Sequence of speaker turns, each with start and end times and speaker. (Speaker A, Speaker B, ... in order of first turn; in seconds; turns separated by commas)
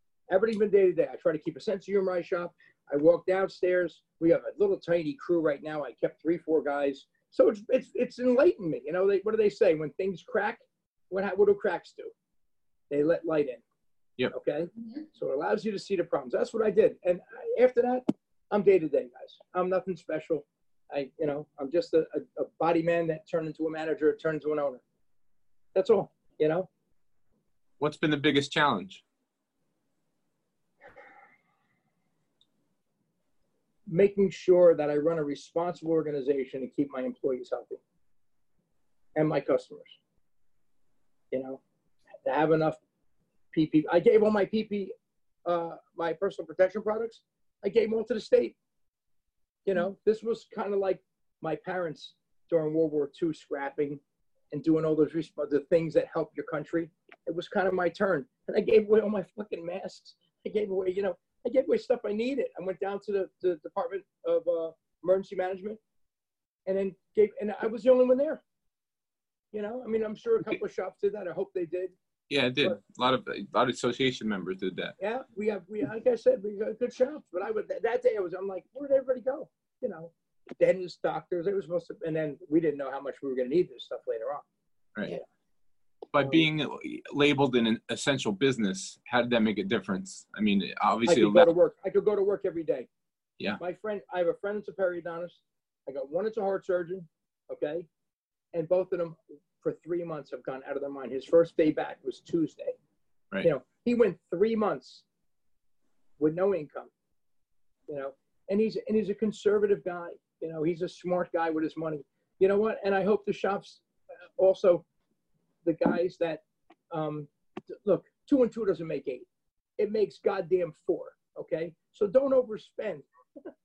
Speaker A: 0.3-12.1, Speaker A: 12.9-13.6, Speaker A: 14.3-24.8, Speaker A: 25.7-26.7, Speaker B: 27.8-29.0, Speaker A: 33.9-37.8, Speaker A: 39.1-40.0, Speaker A: 41.3-41.6, Speaker A: 42.2-42.8, Speaker A: 43.5-48.5, Speaker A: 49.6-65.8, Speaker A: 66.7-68.4, Speaker A: 69.5-72.0, Speaker B: 72.3-74.9, Speaker A: 75.0-84.5, Speaker B: 86.1-91.5, Speaker A: 91.0-92.9, Speaker A: 93.6-97.9, Speaker A: 98.5-102.8, Speaker A: 103.4-105.0, Speaker A: 106.2-106.9, Speaker A: 107.9-113.8, Speaker A: 114.4-114.8, Speaker A: 115.6-119.3, Speaker A: 119.8-123.5